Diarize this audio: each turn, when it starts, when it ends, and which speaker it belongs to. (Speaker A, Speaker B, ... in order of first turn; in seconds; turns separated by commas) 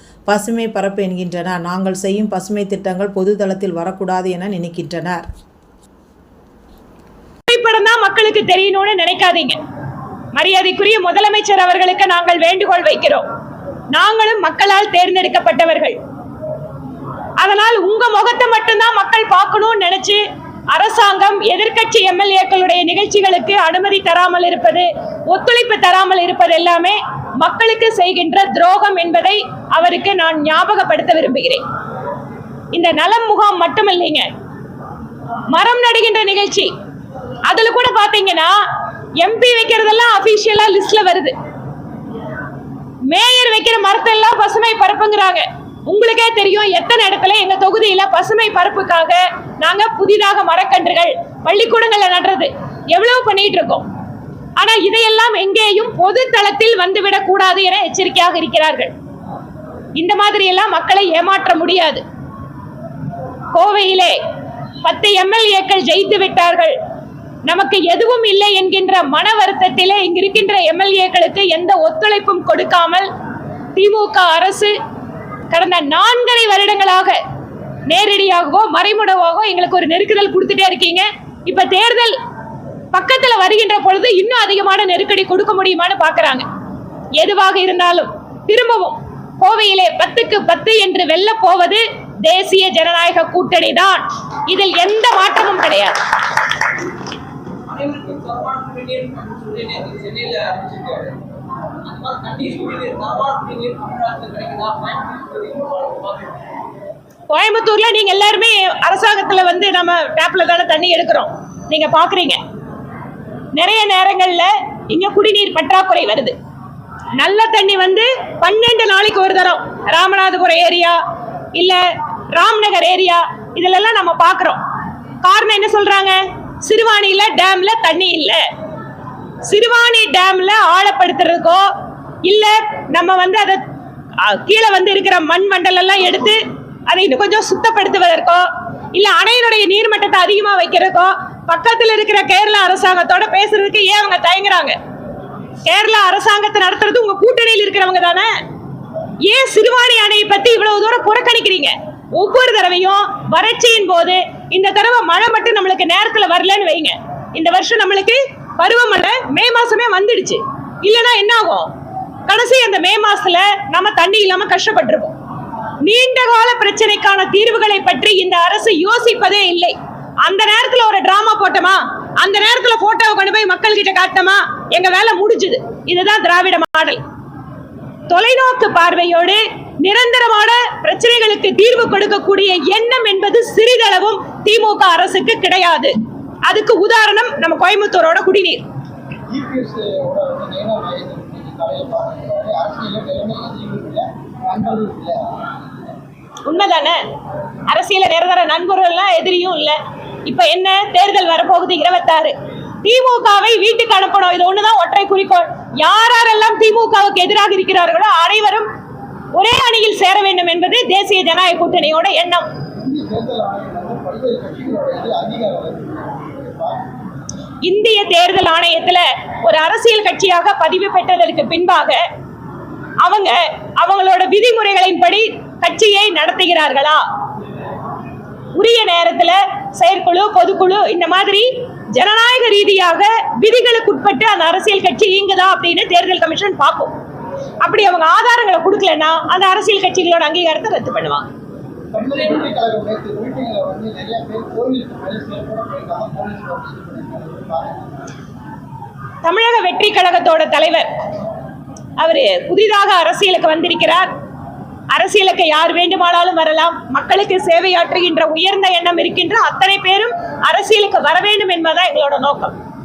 Speaker A: 0.3-5.2, Speaker B: 7.5-9.6, Speaker B: 10.3-13.2, Speaker B: 13.9-16.0, Speaker B: 17.4-31.6, Speaker B: 32.7-34.3, Speaker B: 35.5-36.7, Speaker B: 37.4-38.6, Speaker B: 39.2-41.3, Speaker B: 43.1-53.9, Speaker B: 54.6-58.9, Speaker B: 60.0-62.0, Speaker B: 63.5-64.2, Speaker B: 64.8-66.7, Speaker B: 67.5-73.1, Speaker B: 73.8-74.7, Speaker B: 75.5-77.2, Speaker B: 77.9-82.2, Speaker B: 82.9-86.5, Speaker B: 87.2-96.0, Speaker C: 97.7-101.2, Speaker C: 101.8-106.4, Speaker B: 107.3-112.4, Speaker B: 113.5-116.3, Speaker B: 117.2-121.0, Speaker B: 121.5-121.8, Speaker B: 122.3-124.6, Speaker B: 125.2-128.4, Speaker B: 129.4-131.7, Speaker B: 132.2-133.6, Speaker B: 134.2-144.8, Speaker B: 145.6-148.3, Speaker B: 149.2-161.7, Speaker B: 162.3-165.1, Speaker B: 165.8-177.0, Speaker B: 178.1-185.9, Speaker B: 186.5-188.6, Speaker D: 189.3-195.2, Speaker B: 196.4-197.0, Speaker B: 197.7-208.7, Speaker B: 209.3-212.4, Speaker D: 212.8-216.8, Speaker B: 217.6-222.0, Speaker B: 223.0-227.0, Speaker B: 228.5-236.9, Speaker B: 237.6-241.3, Speaker D: 241.9-247.8, Speaker B: 249.2-250.9, Speaker B: 252.0-254.1, Speaker B: 254.9-262.5